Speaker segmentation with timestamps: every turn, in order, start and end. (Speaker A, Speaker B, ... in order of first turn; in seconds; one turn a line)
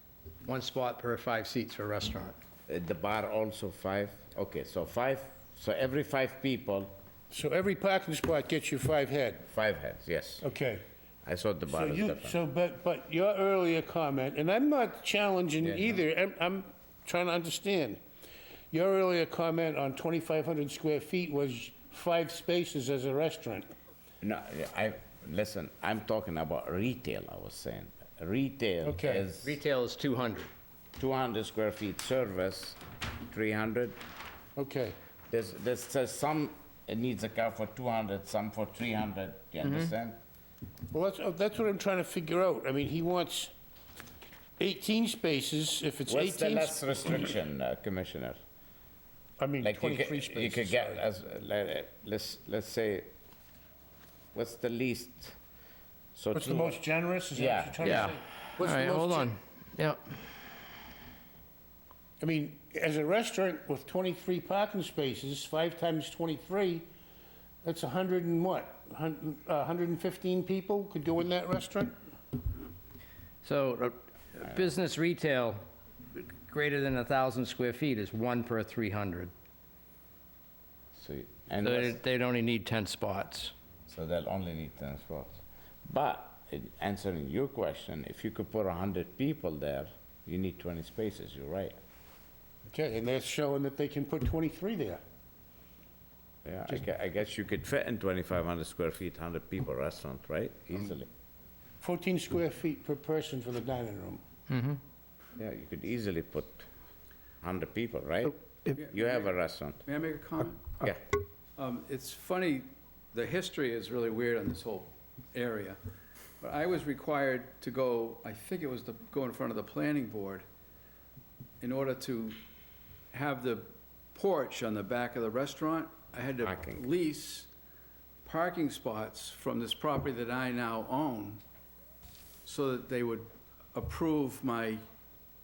Speaker A: 0.4-2.4
Speaker B: 2.7-7.0
Speaker C: 7.3-9.4
Speaker B: 9.5-10.4
Speaker C: 10.4-10.8
Speaker B: 11.3-12.4
Speaker C: 11.7-18.0
Speaker B: 15.6-16.0
Speaker C: 18.7-23.7
Speaker B: 24.2-29.6
Speaker C: 28.9-29.3
Speaker A: 29.4-30.5
Speaker B: 31.0-34.0
Speaker C: 34.6-35.0
Speaker B: 35.3-40.2
Speaker A: 39.6-39.9
Speaker C: 40.9-43.5
Speaker C: 44.6-47.2
Speaker B: 46.1-48.4
Speaker C: 49.4-51.0
Speaker B: 49.6-53.1
Speaker B: 54.3-55.4
Speaker B: 56.1-56.8
Speaker C: 56.3-59.3
Speaker B: 57.4-58.2
Speaker A: 57.8-60.1
Speaker C: 62.2-66.9
Speaker C: 67.6-72.0
Speaker A: 73.4-75.6
Speaker A: 76.1-79.3
Speaker B: 80.9-82.0
Speaker A: 81.6-83.5
Speaker B: 83.9-91.8
Speaker C: 92.7-95.0
Speaker B: 96.5-101.1
Speaker C: 101.8-104.2
Speaker A: 104.5-104.8
Speaker B: 105.4-106.7
Speaker B: 107.4-109.8
Speaker D: 108.8-109.3
Speaker D: 109.8-110.7
Speaker D: 111.6-115.8
Speaker D: 116.4-120.5
Speaker D: 121.6-122.4
Speaker D: 123.1-127.5
Speaker B: 126.4-126.8
Speaker D: 128.2-131.4
Speaker D: 132.4-134.8